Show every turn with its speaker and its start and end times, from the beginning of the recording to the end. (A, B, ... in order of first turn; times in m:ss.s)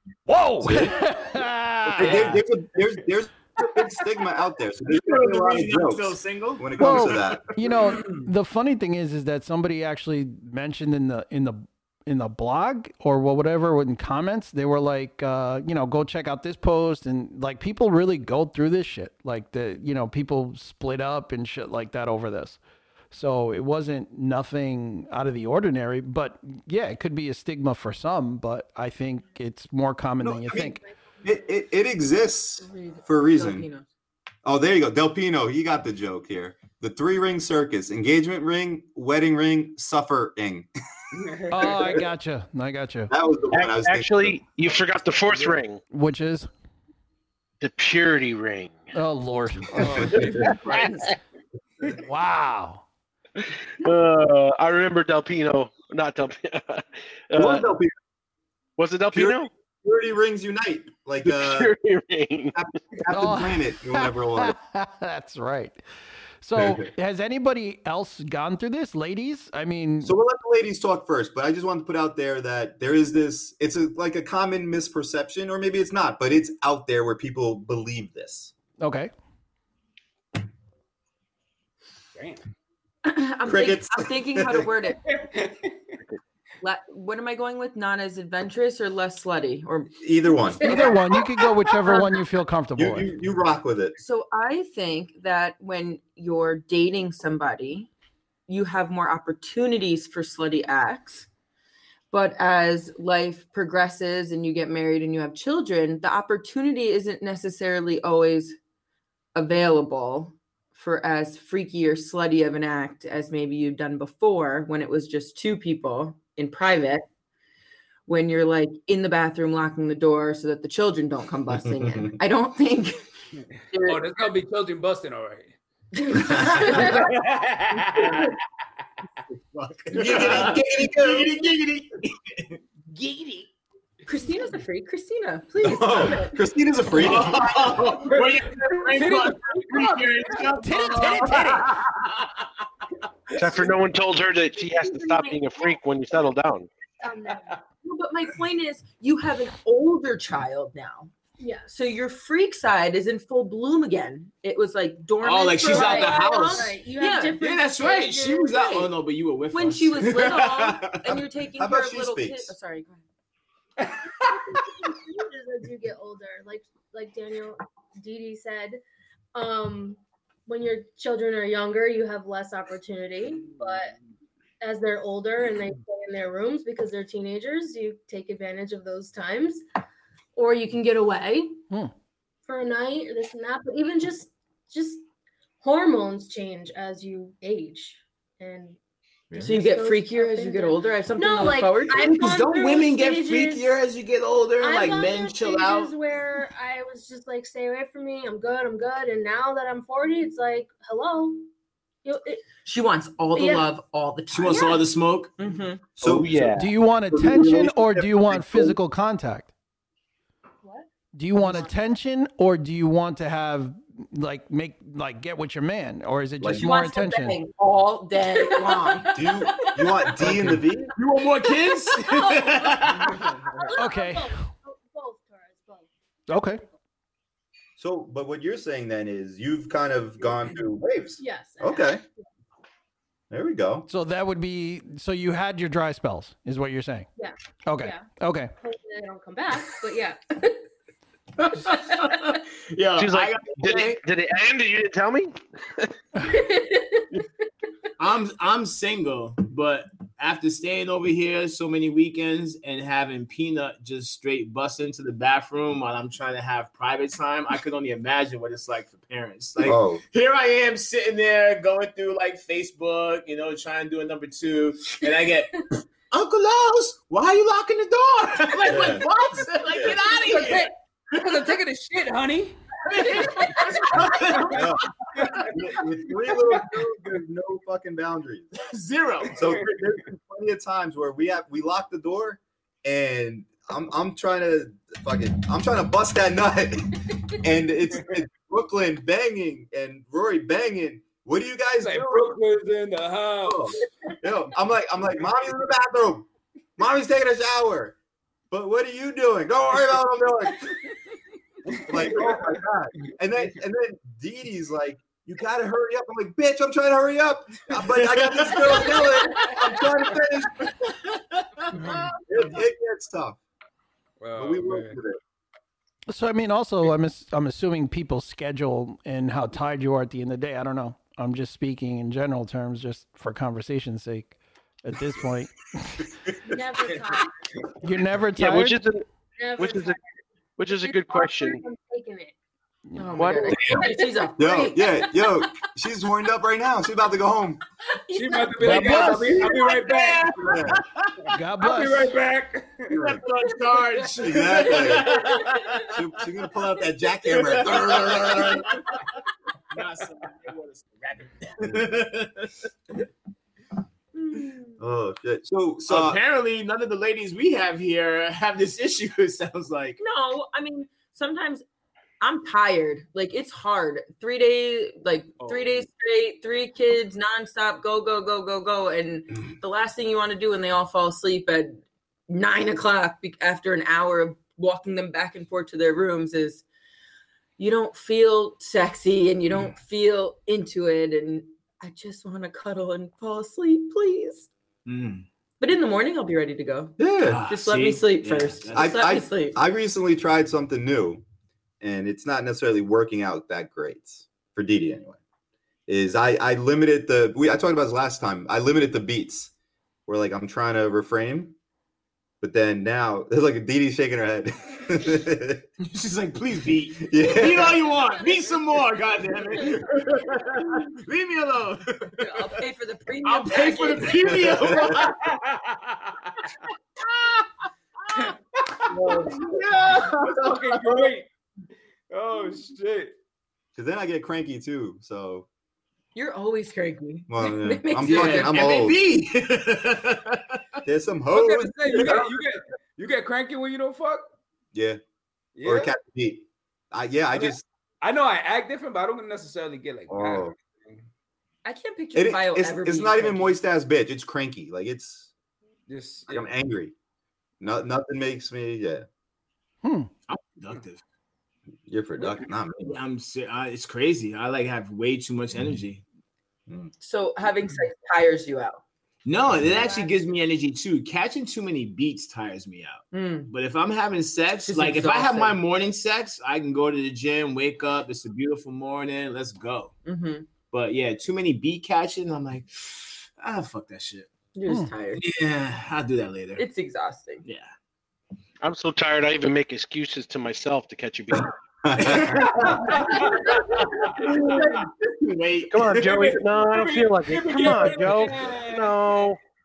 0:00.3-0:02.4 A
0:00.6-0:01.2 B
0:01.9-0:07.6 B
0:04.9-0:08.0 C
0:06.8-0:22.6 A
0:23.1-0:30.8 A
0:30.2-0:33.7 B
0:32.6-0:33.9 D
0:34.4-0:40.7 B
0:41.2-0:41.5 E
0:41.5-0:43.1 A
0:43.1-0:44.4 B
0:43.5-0:45.8 F
0:45.9-0:46.5 A
0:47.6-0:48.9 F
0:48.9-0:50.2 A
0:49.9-0:50.6 E
0:49.9-0:50.9 B
0:50.1-0:51.1 C
0:52.0-0:52.8 A
0:53.4-0:57.7 F
0:57.4-0:57.9 B
0:58.8-0:59.5 F
0:59.1-1:01.8 B
1:01.2-1:02.6 F
1:02.5-1:04.6 B
1:03.1-1:05.8 A
1:06.4-1:10.2 A
1:06.6-1:06.9 B
1:10.0-1:18.5 B
1:18.8-1:19.1 A
1:22.2-1:22.4 E
1:23.0-1:25.2 D
1:23.4-1:24.7 B
1:25.2-1:25.7 E
1:26.6-1:30.0 D
1:30.0-1:31.0 B
1:30.6-1:33.1 A
1:30.7-1:31.2 G
1:32.8-1:34.0 B
1:34.0-1:37.9 D
1:38.5-1:41.3 D
1:42.1-1:48.6 D
1:49.4-1:57.1 D
1:58.1-2:03.0 D
2:03.7-2:04.1 D
2:03.8-2:05.6 E
2:05.9-2:07.1 D
2:06.9-2:08.2 E
2:09.6-2:13.5 C
2:09.8-2:11.4 B
2:14.1-2:16.4 D
2:15.6-2:18.2 B
2:16.9-2:22.5 C
2:18.1-2:20.5 E
2:20.6-2:21.7 A
2:23.4-2:26.7 F
2:24.6-2:25.8 D
2:27.0-2:27.6 G
2:27.8-2:31.1 D
2:31.4-2:31.7 G
2:31.7-2:37.4 D
2:35.2-2:41.0 C
2:35.6-2:38.8 G
2:38.6-2:38.9 D
2:39.5-2:43.0 D
2:41.0-2:42.5 B
2:43.8-2:44.1 E
2:44.2-2:48.8 G
2:49.3-2:54.0 G
2:54.6-2:59.6 G
3:00.4-3:01.6 G
3:02.4-3:05.0 G
3:05.6-3:08.8 G
3:09.4-3:12.2 D
3:09.4-3:13.8 G
3:11.9-3:16.0 C
3:14.6-3:21.5 G
3:22.0-3:22.5 G
3:22.6-3:24.8 D
3:23.4-3:23.7 G
3:24.3-3:25.4 C
3:24.5-3:24.8 G
3:25.4-3:25.9 D
3:26.0-3:28.8 B
3:26.0-3:26.7 F
3:26.6-3:29.5 A
3:30.6-3:30.9 G
3:31.1-3:37.4 A
3:31.4-3:31.8 G
3:36.4-3:36.7 B
3:36.5-3:40.1 D
3:38.5-3:38.8 G
3:39.0-3:40.9 B
3:40.3-3:40.6 A
3:41.0-3:43.4 C
3:41.7-3:42.9 G
3:43.0-3:43.3 E
3:43.6-3:46.7 G
3:43.8-3:44.4 A
3:46.3-3:46.6 A
3:47.8-3:52.0 B
3:51.2-3:52.0 G
3:53.3-3:53.9 B
3:53.9-3:57.1 A
3:57.2-3:58.1 G
3:57.7-3:58.5 A
3:58.6-4:00.7 G
4:01.4-4:04.0 C
4:01.6-4:02.4 G
4:03.0-4:05.9 F
4:06.2-4:07.2 G
4:08.0-4:31.3 C
4:19.6-4:20.0 B
4:28.7-4:29.1 B
4:29.6-4:30.0 B
4:30.0-4:30.7 G
4:31.1-4:32.6 E
4:32.9-4:35.4 C
4:33.1-4:33.7 G
4:34.5-4:38.5 B
4:35.2-4:35.5 E
4:38.7-4:39.6 C
4:39.4-4:52.4 B
4:51.8-4:53.8 E
4:53.4-4:56.3 B
4:56.8-4:58.0 B
4:58.5-5:00.9 B
5:01.7-5:02.5 E
5:01.8-5:10.7 B
5:07.9-5:09.8 C
5:10.6-5:12.1 C
5:12.3-5:13.4 B
5:14.2-5:15.0 E
5:14.4-5:15.2 B
5:16.1-5:26.1 A
5:26.4-5:27.4 G
5:27.8-5:28.8 A
5:28.4-5:30.0 F
5:29.4-5:30.0 G
5:30.6-5:31.6 F
5:30.7-5:32.3 G
5:33.0-5:35.0 D
5:33.2-5:33.7 F
5:33.7-5:34.3 G
5:34.4-5:37.6 B
5:35.0-5:35.3 G
5:38.1-5:39.8 G
5:38.1-5:40.5 E
5:38.6-5:39.4 A
5:39.6-5:41.3 C
5:40.4-5:40.8 B
5:41.3-5:42.1 A
5:41.6-5:43.0 E
5:42.9-5:43.2 B
5:43.0-5:46.0 C
5:43.5-5:45.9 G
5:44.2-5:45.3 B
5:45.9-5:48.8 B
5:47.2-5:49.0 C
5:49.7-5:53.1 C
5:54.2-5:54.8 D
5:54.8-5:56.2 B
5:55.9-6:00.0 C
6:00.0-6:01.6 D
6:02.2-6:16.6 D
6:17.6-6:24.5 D
6:24.9-6:25.3 C
6:25.6-6:29.6 D
6:27.0-6:27.4 B
6:27.2-6:29.0 C
6:28.7-6:31.2 B
6:31.8-6:35.2 B
6:35.9-6:39.5 B
6:40.1-6:41.6 B
6:42.4-6:45.6 B
6:45.8-6:52.6 C
6:47.0-6:48.0 B
6:52.2-6:54.5 D
6:53.2-6:55.4 C
6:54.3-6:55.0 B
6:55.2-6:56.4 E
6:57.0-6:57.7 C
6:58.9-7:01.3 E
6:58.9-7:01.0 C
7:02.1-7:03.1 E
7:03.8-7:05.5 B
7:06.2-7:08.6 D
7:07.3-7:09.0 B
7:08.1-7:10.6 C
7:10.9-7:12.4 B
7:11.3-7:14.2 E
7:14.7-7:15.0 B
7:15.6-7:15.9 E
7:15.6-7:17.6 B
7:17.4-7:21.0 E
7:20.1-7:20.5 B
7:21.6-7:23.6 D
7:22.1-7:25.3 B
7:25.9-7:26.5 E
7:26.3-7:26.9 B
7:27.6-7:29.1 B
7:29.8-7:30.1 A
7:30.3-7:31.0 C
7:31.9-7:33.0 B
7:32.8-7:36.0 C
7:37.0-7:38.8 D
7:39.2-7:50.0 C
7:39.8-7:40.1 G
7:43.1-7:43.5 D
7:44.7-7:45.6 D
7:50.0-7:50.5 D
7:50.7-7:54.3 C
7:54.6-7:55.2 D
7:55.2-7:56.6 C
7:56.6-7:57.4 D
7:57.4-7:57.7 C
7:58.6-8:01.5 F
8:01.3-8:03.0 B
8:02.0-8:06.4 C
8:03.0-8:03.4 E
8:04.2-8:04.6 E
8:05.7-8:09.4 F
8:06.0-8:09.1 E